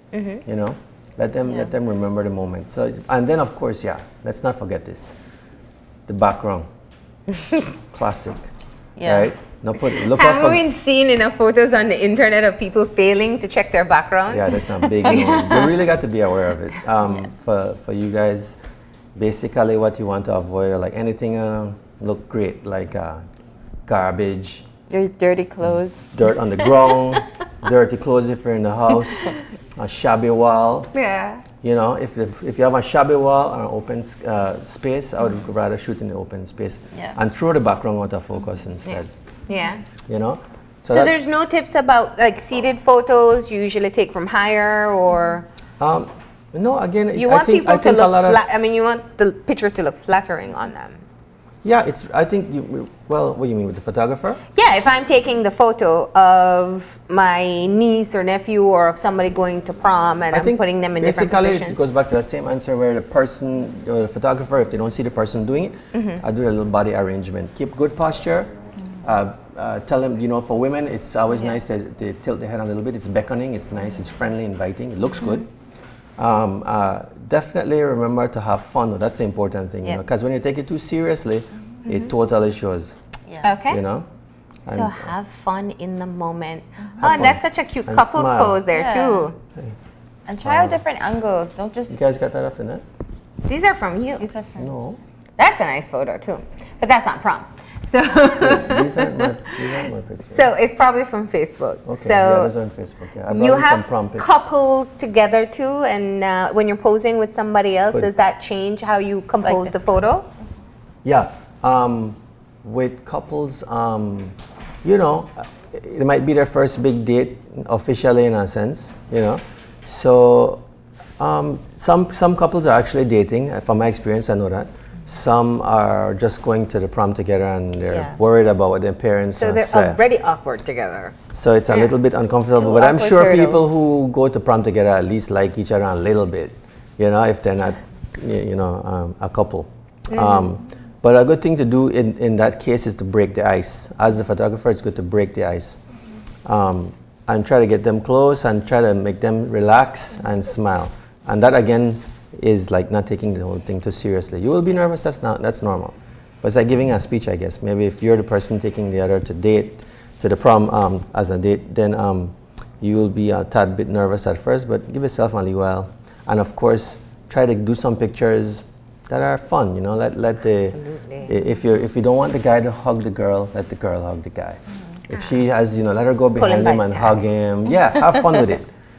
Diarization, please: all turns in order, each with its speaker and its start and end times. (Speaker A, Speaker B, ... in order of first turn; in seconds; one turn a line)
Speaker A: 0.1-0.4
Speaker B: 0.4-5.2
Speaker B: 6.1-6.7
Speaker B: 7.9-8.5
Speaker C: 9.0-9.3
Speaker B: 9.0-10.6
Speaker A: 9.9-15.7
Speaker B: 14.3-18.6
Speaker B: 19.1-23.2
Speaker B: 23.9-24.7
Speaker C: 24.9-26.1
Speaker B: 26.1-30.9
Speaker A: 30.9-31.4
Speaker B: 31.6-39.1
Speaker A: 38.9-39.8
Speaker B: 40.0-41.1
Speaker A: 40.9-45.5
Speaker B: 45.8-48.4
Speaker A: 47.1-51.0
Speaker B: 51.6-54.4
Speaker A: 54.5-61.8
Speaker B: 60.3-68.5
Speaker A: 65.9-66.2
Speaker B: 69.0-75.5
Speaker B: 76.2-83.0
Speaker A: 83.4-83.8
Speaker B: 83.7-84.1
Speaker B: 84.7-85.1
Speaker A: 84.7-89.4
Speaker B: 87.0-88.6
Speaker C: 88.7-89.3
Speaker C: 90.3-92.0
Speaker B: 90.4-90.8
Speaker B: 91.9-92.8
Speaker A: 93.5-94.2
Speaker C: 94.2-94.7
Speaker B: 94.6-95.0
Speaker A: 95.4-99.5
Speaker B: 98.4-100.5
Speaker A: 100.3-102.5
Speaker B: 101.9-104.5
Speaker A: 103.3-110.3
Speaker C: 109.4-109.8
Speaker B: 111.0-120.6
Speaker B: 121.2-130.0
Speaker C: 127.9-128.2
Speaker A: 129.4-131.2
Speaker B: 131.3-145.8
Speaker C: 132.6-133.7
Speaker A: 140.1-140.5
Speaker B: 146.4-178.7
Speaker A: 170.7-171.3
Speaker A: 176.4-177.2